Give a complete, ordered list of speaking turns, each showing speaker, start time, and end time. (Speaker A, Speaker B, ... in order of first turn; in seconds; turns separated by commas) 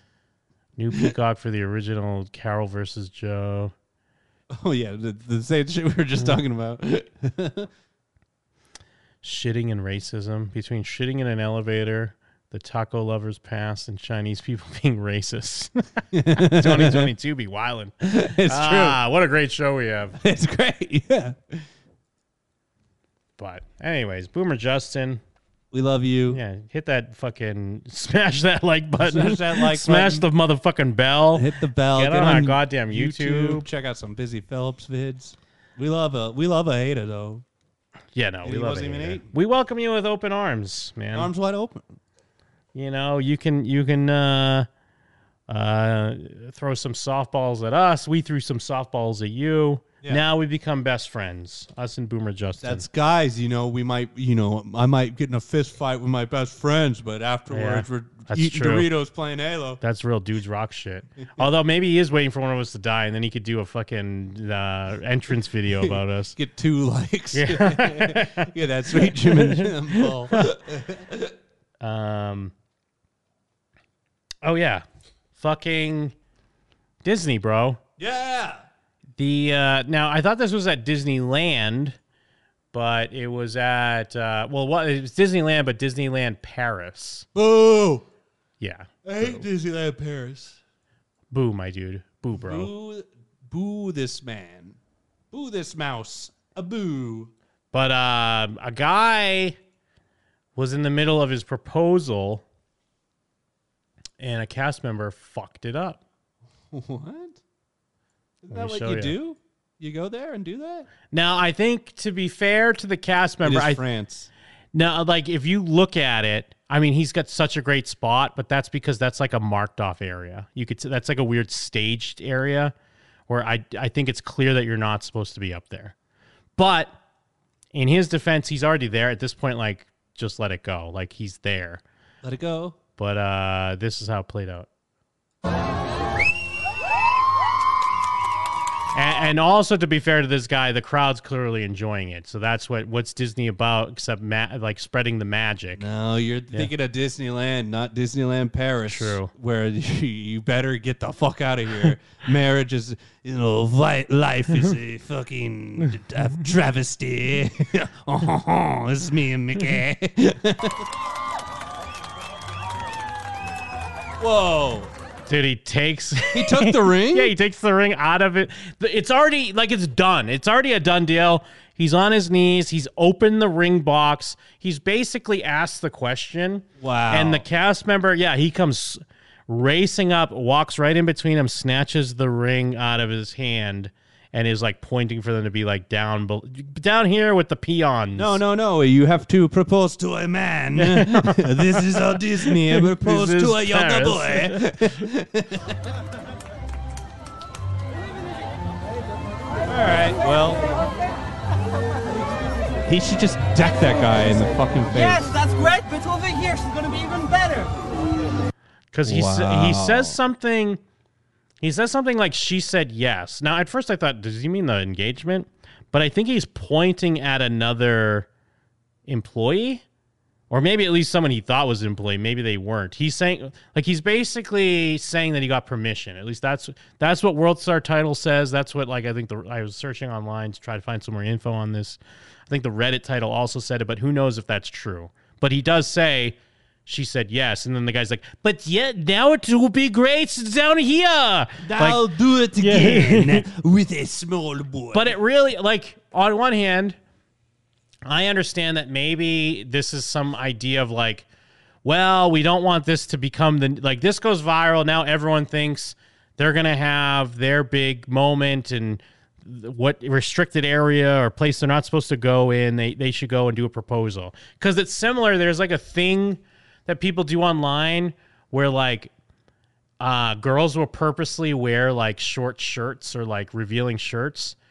Speaker A: 0.8-3.7, Speaker B: 4.5-7.7, Speaker A: 9.2-15.8, Speaker B: 16.1-17.1, Speaker A: 16.4-17.9, Speaker B: 18.0-19.0, Speaker A: 18.5-20.2, Speaker B: 20.2-21.6, Speaker A: 23.4-25.2, Speaker B: 25.7-26.4, Speaker A: 26.3-33.7, Speaker B: 29.0-30.3, Speaker B: 31.4-37.4, Speaker A: 38.1-41.3, Speaker B: 38.4-39.3, Speaker B: 41.1-42.0, Speaker A: 42.7-44.7, Speaker A: 45.5-52.9, Speaker B: 52.6-59.8, Speaker A: 57.5-58.9, Speaker A: 59.8-66.3, Speaker B: 65.8-71.3, Speaker A: 67.3-70.5, Speaker A: 71.8-72.5, Speaker A: 74.4-74.8, Speaker A: 75.4-76.1, Speaker A: 77.0-77.8, Speaker B: 78.0-78.6, Speaker A: 79.2-82.0, Speaker A: 82.7-87.3, Speaker B: 87.3-88.0, Speaker A: 88.6-89.5, Speaker B: 89.0-90.6, Speaker A: 91.3-92.7, Speaker B: 92.3-94.8, Speaker B: 95.3-97.3, Speaker A: 97.7-99.6, Speaker A: 100.6-102.4, Speaker A: 104.2-106.0, Speaker B: 106.7-107.4, Speaker B: 108.4-110.9, Speaker A: 108.5-109.2, Speaker A: 111.1-113.8, Speaker B: 113.4-114.3, Speaker A: 114.7-122.7, Speaker A: 123.3-125.9, Speaker A: 126.6-127.0, Speaker A: 127.7-131.8, Speaker B: 132.2-132.8, Speaker A: 133.0-134.7, Speaker A: 138.9-145.8, Speaker B: 145.8-160.8, Speaker A: 148.9-149.3, Speaker B: 164.2-164.9, Speaker A: 165.3-188.4, Speaker B: 166.3-167.3, Speaker B: 176.8-177.4, Speaker B: 188.2-195.8, Speaker A: 190.8-194.9, Speaker B: 199.7-200.6, Speaker B: 202.9-205.3, Speaker C: 204.9-207.8, Speaker A: 208.9-210.8, Speaker B: 209.1-210.2, Speaker A: 211.6-218.3, Speaker A: 219.1-219.8, Speaker A: 220.5-242.0, Speaker B: 241.6-245.2, Speaker A: 242.6-243.5, Speaker A: 244.9-247.0, Speaker A: 248.1-251.3, Speaker A: 251.8-269.1, Speaker A: 270.0-274.6